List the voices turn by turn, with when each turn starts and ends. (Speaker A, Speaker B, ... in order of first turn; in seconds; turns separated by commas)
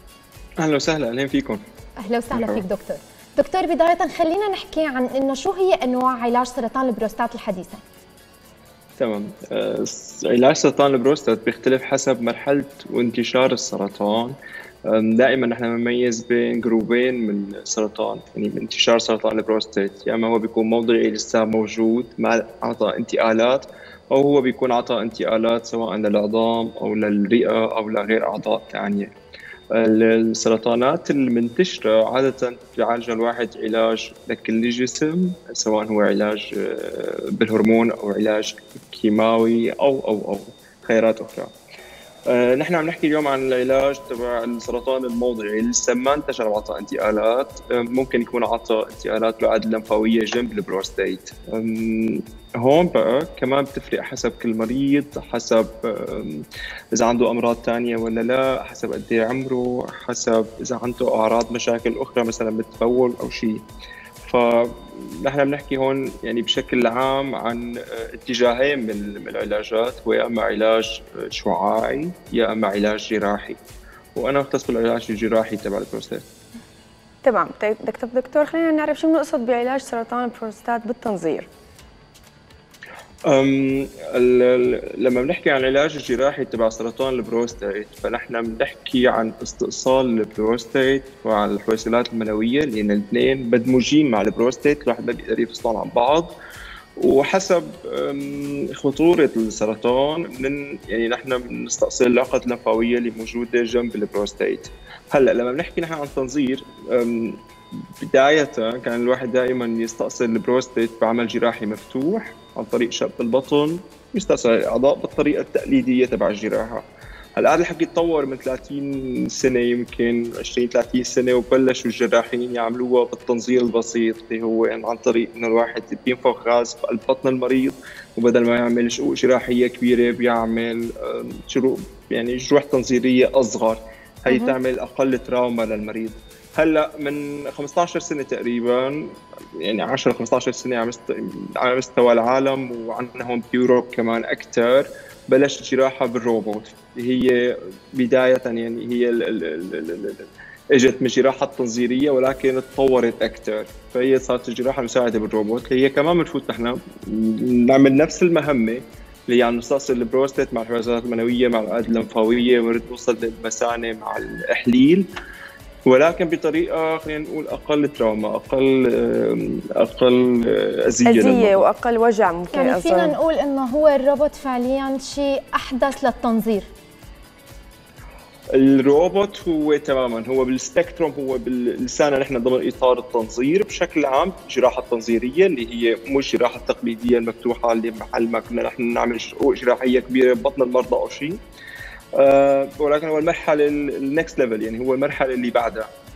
Speaker A: 0.6-1.6, Speaker B: 2.0-7.8, Speaker A: 2.3-2.6, Speaker A: 9.0-14.3, Speaker A: 14.9-29.1, Speaker A: 29.7-41.5, Speaker A: 42.2-63.6, Speaker A: 64.2-73.6, Speaker A: 74.1-76.2, Speaker C: 77.2-81.5, Speaker A: 83.3-96.3, Speaker A: 97.0-107.4, Speaker A: 108.0-116.8, Speaker A: 117.3-165.1, Speaker C: 134.3-134.5, Speaker A: 165.8-171.6, Speaker C: 171.1-173.2, Speaker B: 172.5-176.7, Speaker A: 178.5-191.4, Speaker A: 192.2-195.9